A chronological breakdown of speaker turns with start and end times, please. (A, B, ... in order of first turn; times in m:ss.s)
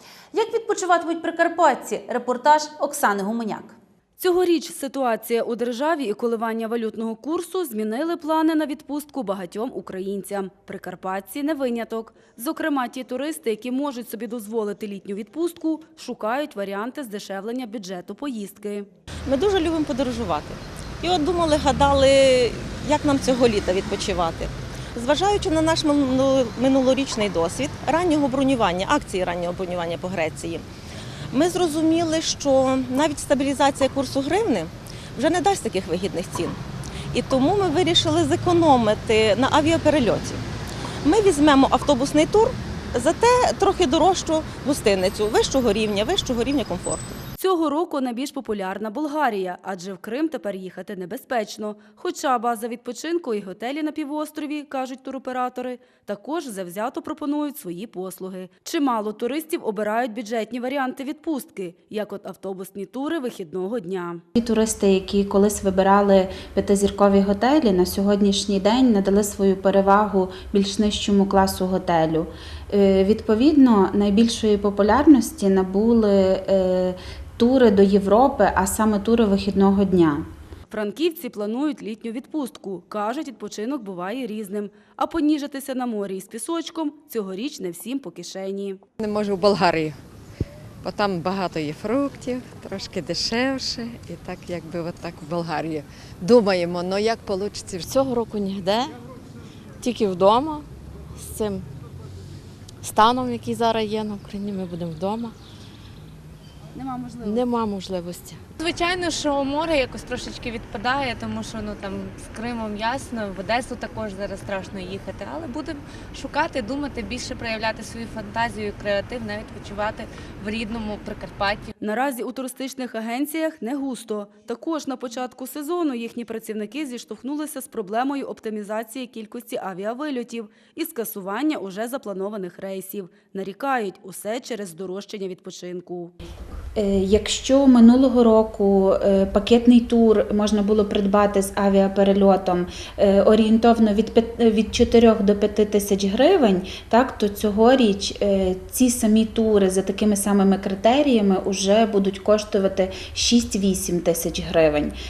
0:00.3-0:03.8 A
0:04.2-0:18.9 B
0:19.3-0:30.6 C
0:31.3-0:36.6 C
0:37.1-0:40.4 C
0:41.0-0:47.2 C
0:47.4-1:04.2 B
1:04.4-1:20.2 D
1:20.7-1:28.8 B
1:29.0-1:30.0 E
1:30.8-1:38.0 E
1:37.8-1:39.0 F
1:39.8-1:41.6 F
1:42.8-1:45.3 F
1:46.7-1:47.4 B
1:47.2-1:48.4 F
1:48.6-2:01.7 G
2:01.8-2:16.1 B
2:16.8-2:35.0 D